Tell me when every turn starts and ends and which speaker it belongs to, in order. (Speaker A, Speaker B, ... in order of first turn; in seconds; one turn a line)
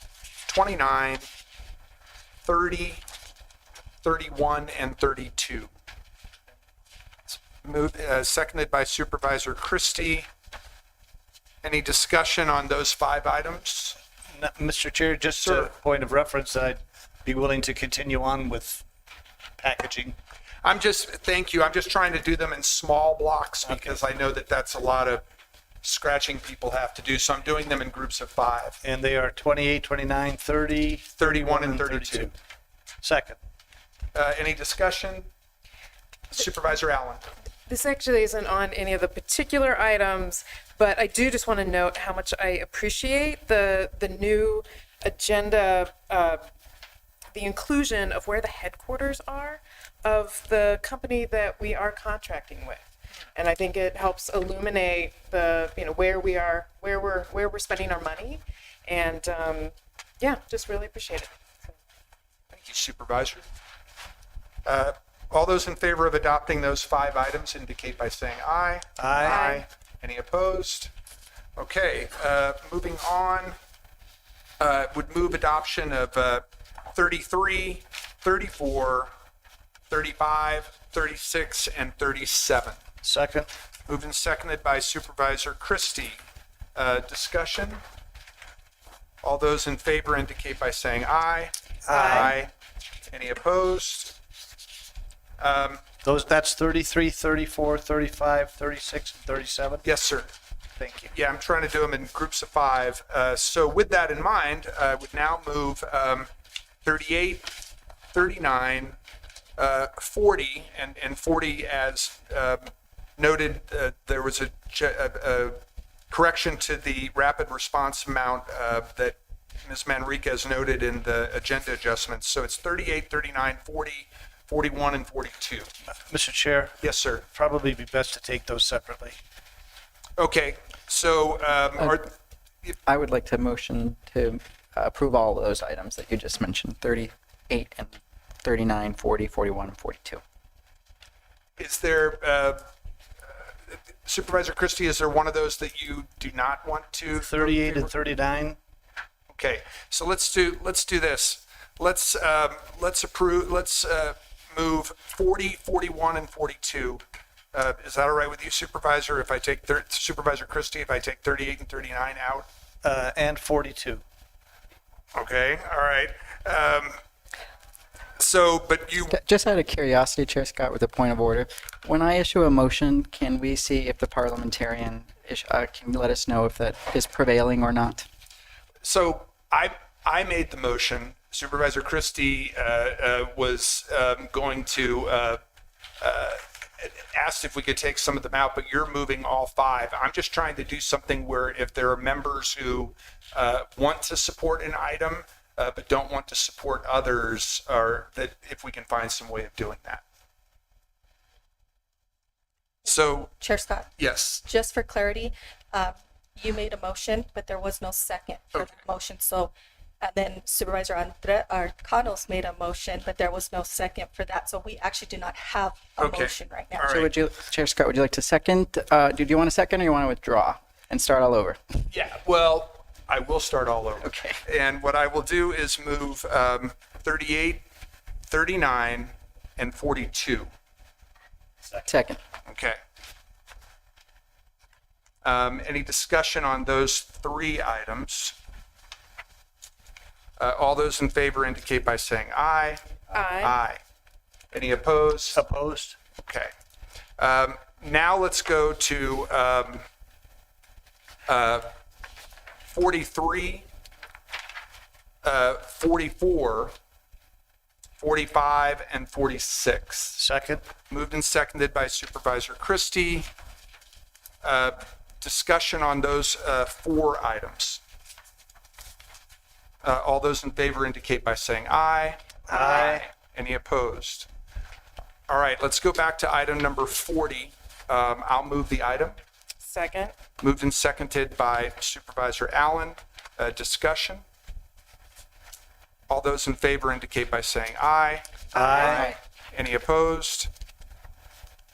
Speaker A: 0.5-1.3
Speaker A: 2.5-3.0
Speaker A: 4.0-5.7
Speaker A: 7.3-10.3
Speaker A: 11.6-14.0
Speaker B: 14.3-18.9
Speaker A: 15.4-15.7
Speaker B: 19.6-20.2
Speaker A: 20.6-25.2
Speaker B: 23.7-24.0
Speaker A: 25.8-28.8
Speaker B: 28.8-32.3
Speaker A: 31.2-32.3
Speaker B: 33.0-33.4
Speaker A: 34.1-35.3
Speaker A: 36.3-37.2
Speaker C: 37.7-46.4
Speaker C: 47.3-61.8
Speaker A: 62.5-63.4
Speaker A: 64.7-70.9
Speaker B: 69.0-69.4
Speaker C: 69.3-69.6
Speaker A: 71.6-73.6
Speaker A: 74.6-79.1
Speaker A: 79.9-82.8
Speaker B: 83.0-83.5
Speaker A: 83.9-86.2
Speaker A: 86.8-87.8
Speaker A: 89.2-92.5
Speaker B: 91.9-92.4
Speaker C: 91.9-92.3
Speaker A: 93.1-94.2
Speaker A: 95.4-95.8
Speaker B: 96.0-99.8
Speaker A: 99.8-100.3
Speaker B: 100.8-101.1
Speaker A: 101.1-106.3
Speaker A: 106.8-107.5
Speaker A: 108.1-109.0
Speaker A: 109.6-125.7
Speaker B: 126.1-129.2
Speaker A: 126.8-127.3
Speaker A: 130.2-132.1
Speaker D: 132.9-140.2
Speaker A: 141.6-142.6
Speaker A: 143.7-147.9
Speaker B: 147.2-148.6
Speaker A: 149.3-162.5
Speaker B: 162.8-164.0
Speaker A: 165.2-167.0
Speaker A: 168.2-169.2
Speaker D: 169.1-178.1
Speaker A: 178.8-185.4
Speaker A: 186.0-200.0
Speaker A: 202.9-203.3
Speaker E: 203.4-203.9
Speaker A: 204.0-204.4
Speaker E: 204.4-216.9
Speaker A: 216.0-217.1
Speaker D: 216.9-221.6
Speaker A: 221.9-227.7
Speaker D: 224.0-224.4
Speaker A: 228.3-230.5
Speaker D: 231.9-232.2
Speaker A: 232.5-232.8
Speaker A: 235.2-238.4
Speaker A: 240.4-242.8
Speaker C: 243.1-243.6
Speaker A: 243.4-243.8
Speaker A: 244.5-245.4
Speaker B: 245.3-246.0
Speaker A: 246.2-246.5
Speaker A: 247.2-249.8
Speaker A: 251.3-251.7
Speaker A: 252.7-253.7
Speaker A: 255.2-256.7
Speaker A: 258.0-260.2
Speaker B: 260.1-260.6
Speaker A: 260.9-263.3
Speaker A: 264.4-267.8
Speaker A: 269.8-274.3
Speaker B: 272.5-273.1
Speaker A: 275.3-279.2
Speaker C: 279.6-280.1
Speaker A: 280.4-284.2
Speaker A: 286.1-290.5
Speaker B: 288.6-289.1